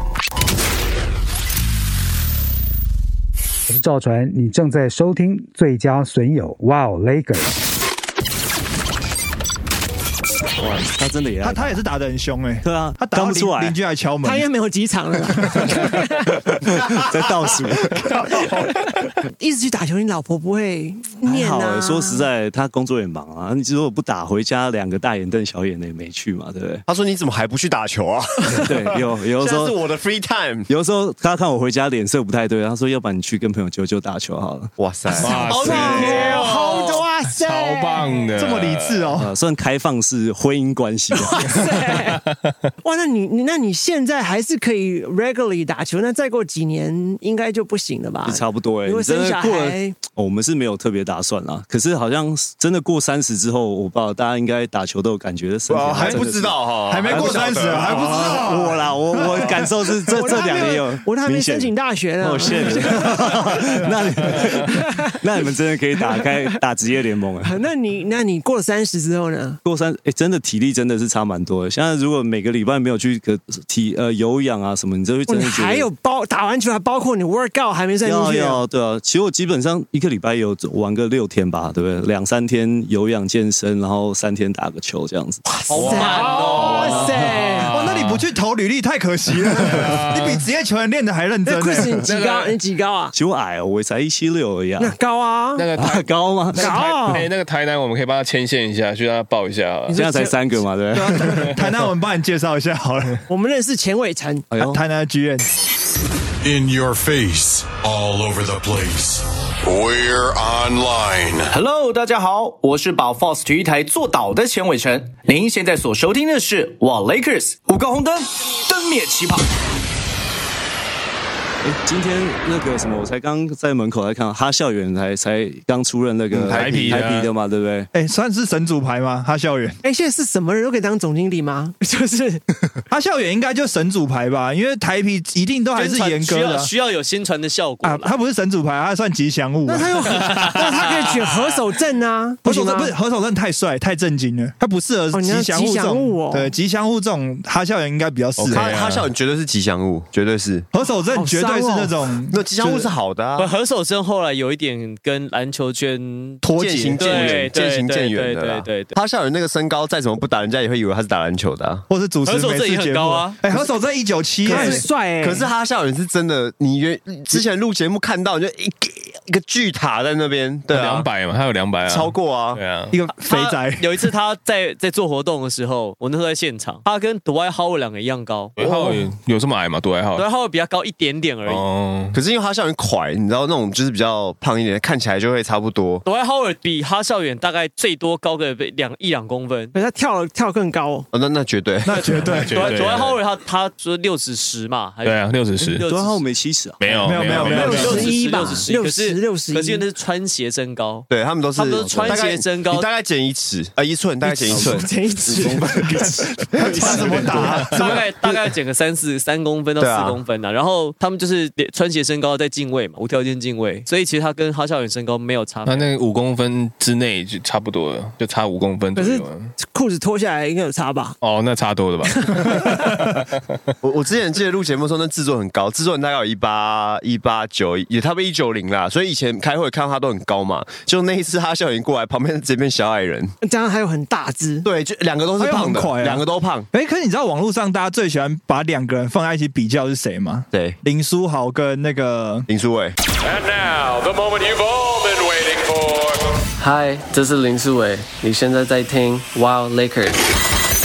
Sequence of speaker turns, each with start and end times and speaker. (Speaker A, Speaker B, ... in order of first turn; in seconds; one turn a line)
Speaker A: 3.7-7.5
Speaker B: 10.6-11.7
Speaker C: 11.4-14.5
Speaker B: 12.6-13.8
Speaker D: 14.2-16.4
Speaker B: 16.7-18.0
Speaker D: 18.2-22.2
Speaker E: 18.4-19.1
Speaker B: 21.2-26.8
Speaker F: 26.9-30.7
Speaker B: 28.6-29.8
Speaker B: 30.7-34.7
Speaker F: 34.8-36.4
Speaker E: 35.1-39.1
Speaker D: 35.2-38.4
Speaker B: 35.6-36.1
Speaker C: 38.3-39.3
Speaker B: 39.2-41.7
Speaker D: 41.1-42.2
Speaker D: 42.8-50.0
Speaker B: 48.2-67.6
Speaker F: 55.7-58.5
Speaker C: 56.9-59.6
Speaker D: 60.1-63.7
Speaker D: 64.3-65.2
Speaker D: 66.0-66.5
Speaker D: 67.4-69.6
Speaker B: 69.6-75.9
Speaker D: 75.3-78.6
Speaker B: 78.0-85.5
Speaker D: 85.4-87.7
Speaker G: 85.7-87.2
Speaker F: 85.8-86.6
Speaker B: 86.5-87.7
Speaker E: 87.6-88.2
Speaker C: 87.7-92.0
Speaker E: 89.6-90.4
Speaker D: 91.5-93.1
Speaker E: 92.1-92.5
Speaker B: 93.1-95.0
Speaker D: 94.8-95.7
Speaker E: 95.5-100.1
Speaker B: 95.8-97.2
Speaker D: 96.5-97.3
Speaker D: 99.9-100.3
Speaker B: 99.9-101.5
Speaker C: 100.9-103.2
Speaker D: 103.3-104.5
Speaker B: 104.5-104.8
Speaker C: 104.6-105.5
Speaker H: 106.4-111.5
Speaker I: 111.5-119.5
Speaker B: 121.6-127.9
Speaker F: 126.3-127.1
Speaker E: 126.5-127.3
Speaker C: 127.9-129.8
Speaker D: 129.8-132.4
Speaker C: 132.9-136.7
Speaker G: 135.8-138.1
Speaker C: 137.8-139.9
Speaker D: 139.7-142.9
Speaker C: 142.4-148.7
Speaker D: 145.1-146.5
Speaker E: 148.4-149.1
Speaker F: 148.5-150.7
Speaker C: 150.7-152.9
Speaker D: 151.1-152.0
Speaker F: 152.3-153.5
Speaker G: 153.4-156.4
Speaker C: 156.4-157.5
Speaker F: 156.5-161.9
Speaker G: 157.0-158.9
Speaker C: 161.9-164.9
Speaker G: 162.2-163.4
Speaker D: 164.4-165.5
Speaker F: 164.5-171.1
Speaker E: 170.7-172.9
Speaker F: 171.8-172.6
Speaker C: 172.9-174.1
Speaker G: 173.2-178.6
Speaker E: 178.6-180.2
Speaker G: 180.2-181.6
Speaker E: 181.4-182.2
Speaker F: 182.1-186.0
Speaker G: 186.0-189.7
Speaker D: 189.7-191.1
Speaker F: 191.1-192.4
Speaker C: 191.8-192.8
Speaker E: 192.4-193.2
Speaker G: 192.5-196.2
Speaker E: 195.0-195.8
Speaker B: 195.8-197.6
Speaker E: 196.8-198.2
Speaker C: 197.0-198.0
Speaker G: 197.3-202.9
Speaker D: 197.4-199.8
Speaker F: 201.1-206.1
Speaker B: 201.8-202.2
Speaker D: 204.2-206.1
Speaker B: 204.5-204.8
Speaker B: 205.3-206.0
Speaker C: 206.5-207.8
Speaker F: 206.6-208.1
Speaker B: 206.8-207.5
Speaker G: 207.7-215.9
Speaker F: 209.8-210.2
Speaker E: 215.6-219.5
Speaker D: 218.9-221.2
Speaker E: 221.2-223.3
Speaker D: 222.2-222.9
Speaker F: 223.8-233.3
Speaker D: 233.4-234.7
Speaker F: 234.6-236.7
Speaker C: 235.4-242.5
Speaker F: 240.5-240.8
Speaker F: 242.5-243.0
Speaker H: 243.2-246.2
Speaker J: 246.6-250.2